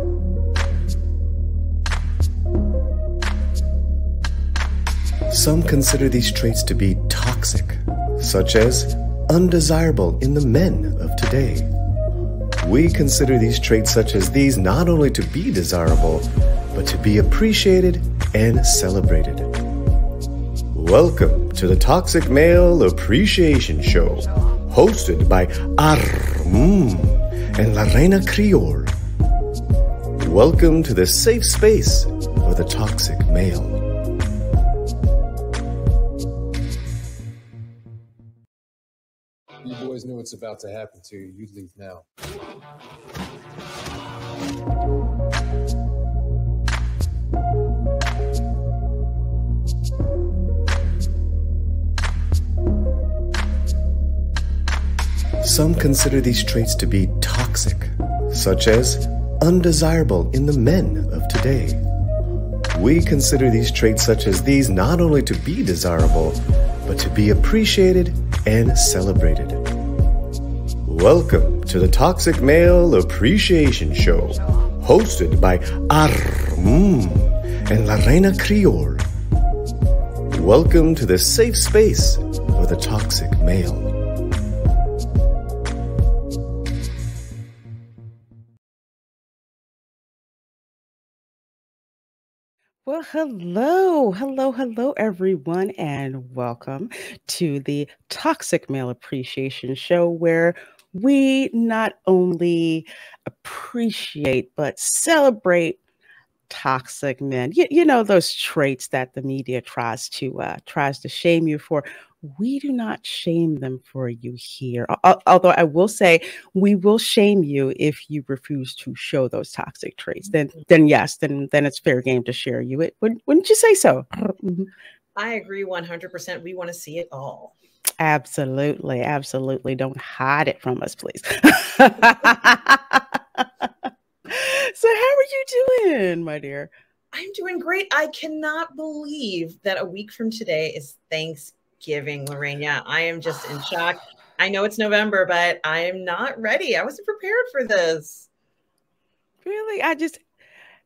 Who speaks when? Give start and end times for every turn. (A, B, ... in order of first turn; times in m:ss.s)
0:05.3-0:11.7 A
0:12.6-0:19.6 A
0:20.7-0:28.9 A
0:30.2-0:33.8 A
0:39.6-0:42.1 B
0:55.4-1:01.8 A
1:02.7-1:09.7 A
1:10.8-1:19.0 A
1:20.3-1:24.0 A
1:32.8-1:45.8 C
1:46.5-2:04.7 C
2:05.2-2:07.6 D
2:08.0-2:13.7 C
2:14.3-2:16.7 C
2:17.1-2:28.3 D
2:29.4-2:30.2 C